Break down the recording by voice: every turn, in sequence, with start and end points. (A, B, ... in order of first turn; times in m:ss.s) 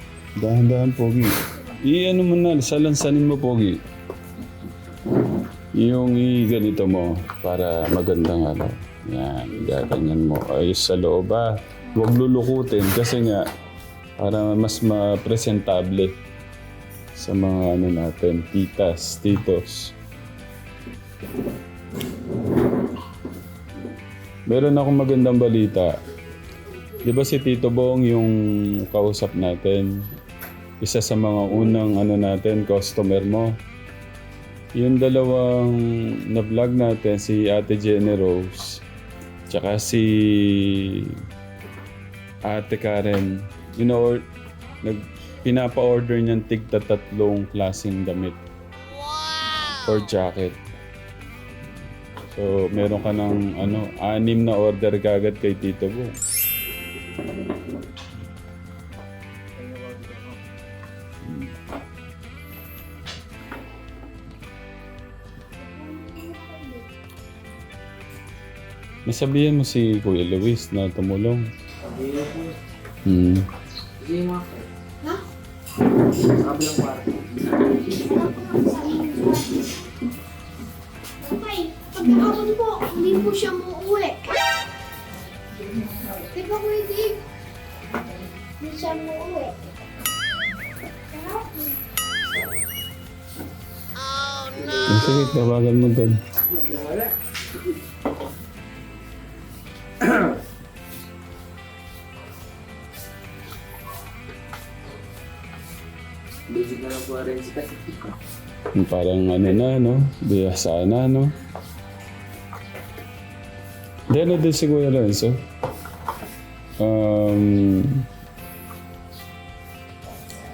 0:00.4-0:03.8 A
0:05.8-0:13.4 A
0:14.2-0:16.1 A
0:17.2-0:19.9 A
0:24.5-0:25.9 A
0:27.0-0:29.9 A
0:30.8-0:33.5 A
0:34.8-0:38.8 A
0:39.5-0:41.2 A
0:42.4-0:44.2 A
0:44.8-0:48.4 A
0:49.7-0:50.6 A
0:52.3-0:56.1 A
0:59.6-1:00.4 B
1:01.2-1:01.5 A
1:05.6-1:06.9 C
1:09.0-1:11.5 A
1:11.9-1:12.5 B
1:13.0-1:13.4 A
1:14.0-1:14.5 B
1:16.3-1:17.6 B
1:17.8-1:19.8 C
1:21.2-1:24.4 C
1:26.1-1:27.2 C
1:28.6-1:29.6 C
1:31.1-1:31.8 C
1:34.8-1:36.2 A
1:46.5-1:48.1 B
1:48.7-1:51.3 A
1:54.1-1:55.4 A
1:56.8-1:58.0 A